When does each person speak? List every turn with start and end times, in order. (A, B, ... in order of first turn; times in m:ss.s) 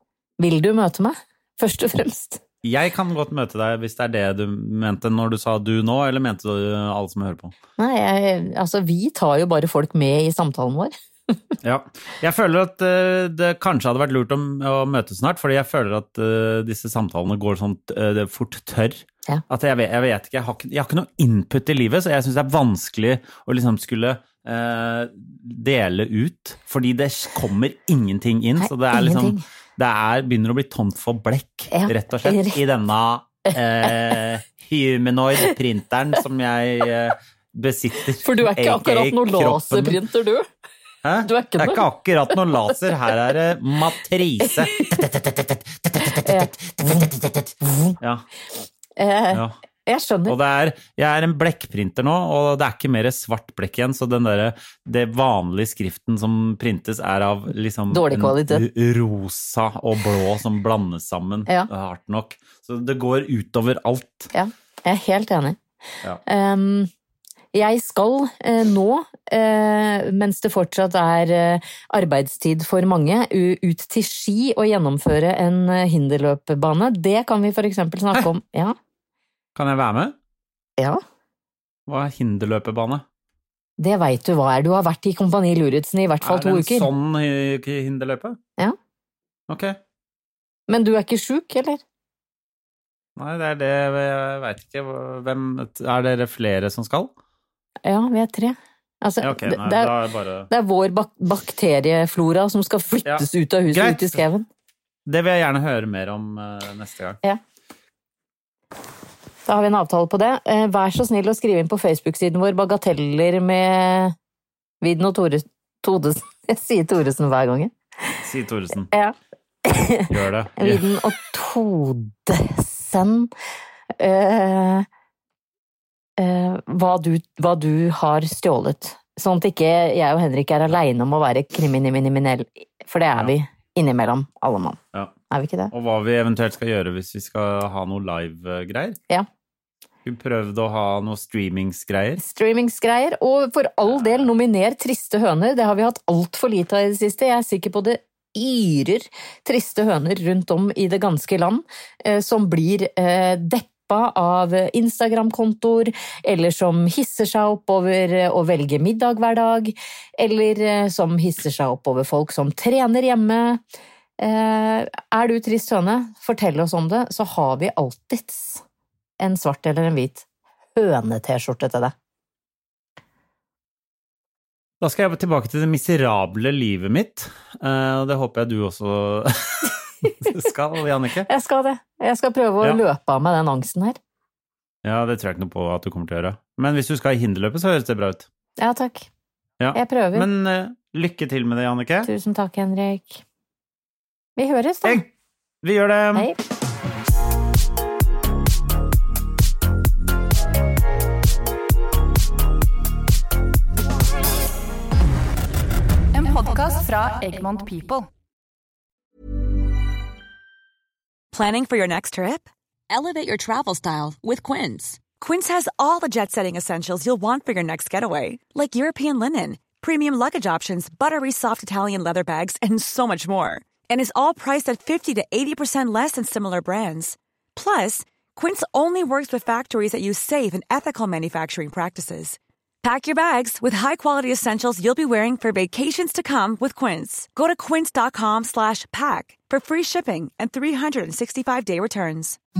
0:00.4-0:02.4 A
0:02.6-0:07.5 B
0:07.8-0:11.4 A
0:11.6-0:40.0 B
0:28.6-0:29.4 A
0:31.7-0:32.6 A
0:33.5-0:34.1 A
0:38.2-0:40.4 A
0:41.0-0:48.2 B
0:41.2-0:41.8 A
0:44.8-0:45.0 A
0:46.2-0:47.0 A
0:47.6-0:47.9 A
0:49.0-0:50.3 A
0:50.3-1:04.3 B
0:57.9-0:58.6 A
1:04.3-1:05.6 A
1:06.2-1:06.9 A
1:07.5-1:18.8 A
1:19.6-1:20.1 B
1:21.9-1:23.0 B
1:23.8-1:26.9 A
1:26.2-1:28.4 B
1:29.5-1:29.8 B
1:30.7-1:31.8 A
1:33.2-1:37.1 B
1:37.8-1:39.9 A
1:39.2-1:40.5 B
1:40.5-1:44.4 A
1:43.0-1:44.2 B
1:45.1-1:47.2 B
1:49.4-1:54.1 A
1:54.8-1:58.2 A
1:58.2-1:58.9 B
1:58.9-2:03.3 A
2:00.1-2:00.8 B
2:04.0-2:04.8 A
2:06.2-2:14.8 A
2:15.3-2:15.7 A
2:15.7-2:19.0 B
2:20.0-2:22.2 B
2:22.2-2:43.6 A
2:23.9-2:24.3 B
2:44.2-2:48.6 A
2:49.2-2:51.9 A
2:54.8-3:01.3 B
3:00.0-3:00.3 A
3:01.3-3:04.0 A
3:04.8-3:08.2 B
3:08.6-3:09.1 A
3:09.6-3:12.1 B
3:09.7-3:10.3 A
3:12.0-3:13.2 A
3:14.4-3:15.0 A
3:15.6-3:16.3 B
3:26.1-3:28.1 C
3:31.3-4:02.4 D